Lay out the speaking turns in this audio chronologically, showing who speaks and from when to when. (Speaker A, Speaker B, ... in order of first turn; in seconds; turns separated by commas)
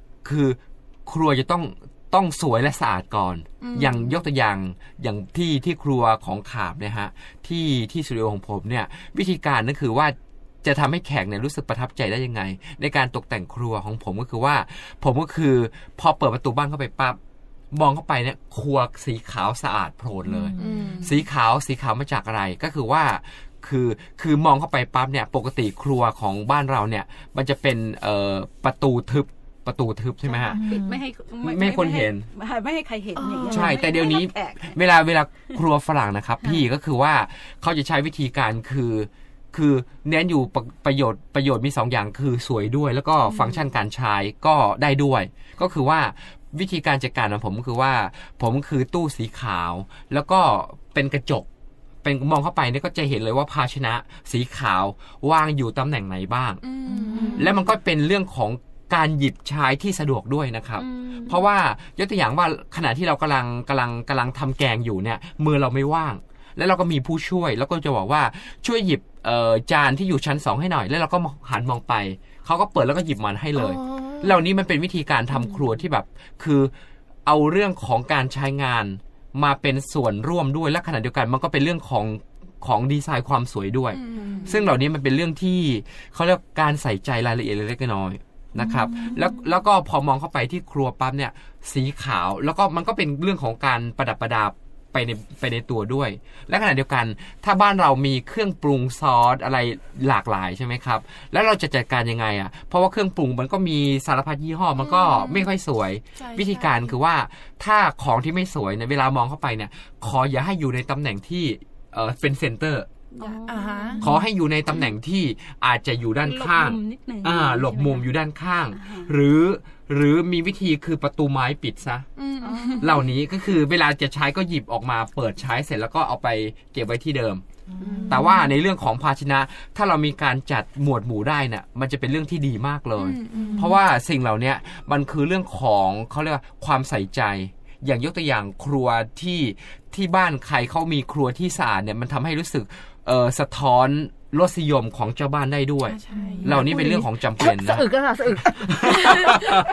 Speaker A: 0.2-17.2, Speaker B: 3.6-4.1, Speaker A: 17.7-30.6, Speaker C: 20.2-21.1, Speaker B: 20.6-21.2, Speaker D: 30.2-34.8, Speaker C: 30.5-31.0, Speaker A: 31.4-32.3, Speaker C: 33.1-33.8, Speaker A: 33.5-51.5, Speaker A: 52.0-56.6, Speaker B: 56.6-57.6, Speaker C: 56.9-57.5, Speaker A: 57.3-76.7, Speaker D: 60.8-61.4, Speaker C: 73.5-74.4, Speaker A: 77.2-112.9, Speaker B: 83.9-84.7, Speaker C: 88.6-89.2, Speaker B: 104.8-105.5, Speaker B: 106.2-106.8, Speaker D: 113.2-114.1, Speaker B: 113.2-114.0, Speaker A: 114.0-122.0, Speaker D: 116.2-118.1, Speaker D: 118.7-119.1, Speaker B: 122.2-123.0, Speaker D: 122.4-123.1, Speaker A: 122.8-127.4, Speaker C: 127.7-128.4, Speaker D: 127.8-128.1, Speaker A: 128.1-147.9, Speaker B: 128.1-128.4, Speaker B: 133.0-133.7, Speaker C: 133.4-133.7, Speaker B: 145.8-146.6, Speaker C: 146.1-149.4, Speaker A: 148.5-149.5